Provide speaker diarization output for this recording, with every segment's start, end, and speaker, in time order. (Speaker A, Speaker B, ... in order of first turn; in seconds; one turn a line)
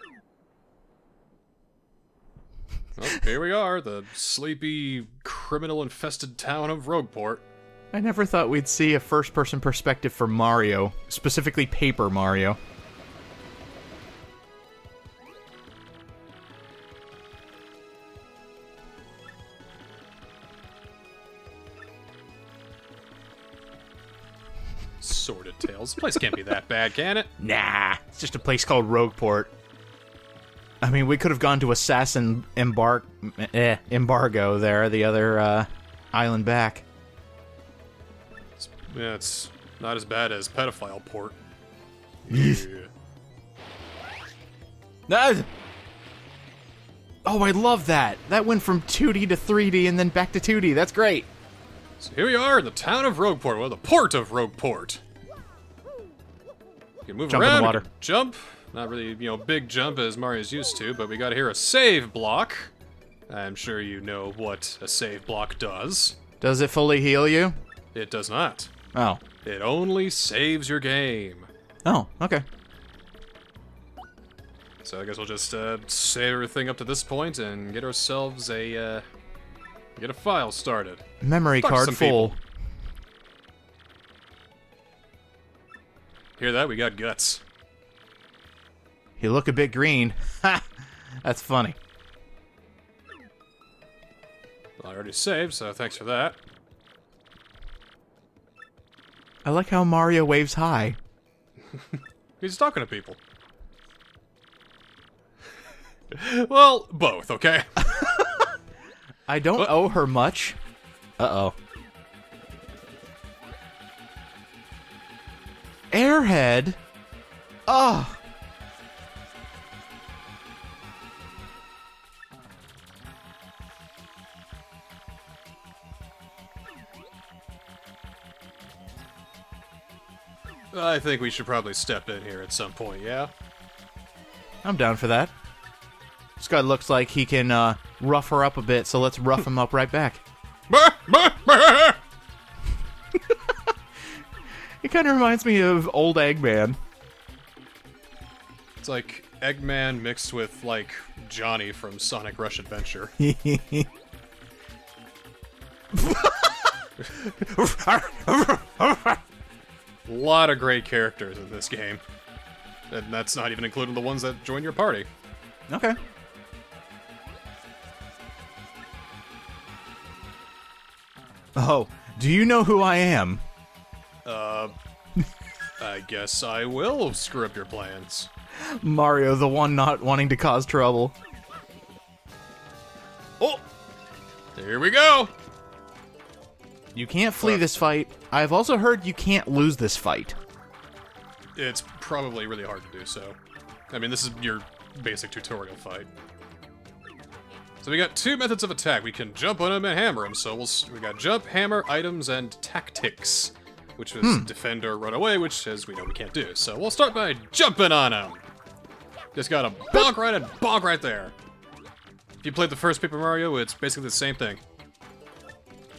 Speaker A: 3.0-7.4
Speaker B: 7.9-12.6
Speaker A: 25.0-27.3
Speaker B: 27.4-29.5
Speaker B: 30.8-36.8
Speaker A: 38.6-41.4
Speaker A: 42.2-42.9
Speaker B: 42.3-42.6
Speaker B: 45.1-45.5
Speaker B: 47.2-51.3
Speaker A: 52.0-55.0
Speaker A: 57.0-62.7
Speaker B: 57.3-57.9
Speaker A: 63.3-66.2
Speaker B: 66.4-67.5
Speaker A: 67.9-68.7
Speaker B: 68.9-69.2
Speaker A: 69.4-71.5
Speaker B: 71.8-72.4
Speaker A: 74.8-79.0
Speaker A: 80.0-81.0
Speaker B: 81.2-82.4
Speaker A: 81.6-82.4
Speaker A: 86.4-87.4
Speaker B: 89.2-91.8
Speaker A: 94.8-96.4
Speaker B: 99.4-101.0
Speaker A: 101.7-103.2
Speaker A: 106.1-108.1
Speaker B: 107.8-108.4
Speaker B: 109.3-110.6
Speaker B: 111.2-111.5
Speaker B: 115.9-116.8
Speaker B: 117.7-118.2
Speaker A: 130.7-133.3
Speaker B: 134.6-135.3
Speaker B: 136.4-140.2
Speaker A: 140.7-142.0
Speaker B: 143.1-143.7
Speaker B: 144.8-146.8
Speaker A: 148.8-153.1
Speaker B: 153.2-153.9
Speaker B: 155.9-159.2
Speaker A: 160.1-162.0
Speaker A: 162.9-165.1
Speaker B: 165.7-166.0
Speaker B: 171.6-173.4
Speaker A: 174.2-174.7
Speaker A: 175.8-178.3
Speaker B: 178.6-181.1
Speaker A: 184.6-185.3
Speaker B: 186.9-190.4
Speaker A: 191.6-193.4
Speaker A: 193.9-196.1
Speaker A: 197.8-208.4
Speaker B: 204.2-204.5
Speaker A: 209.3-211.3
Speaker A: 212.4-214.6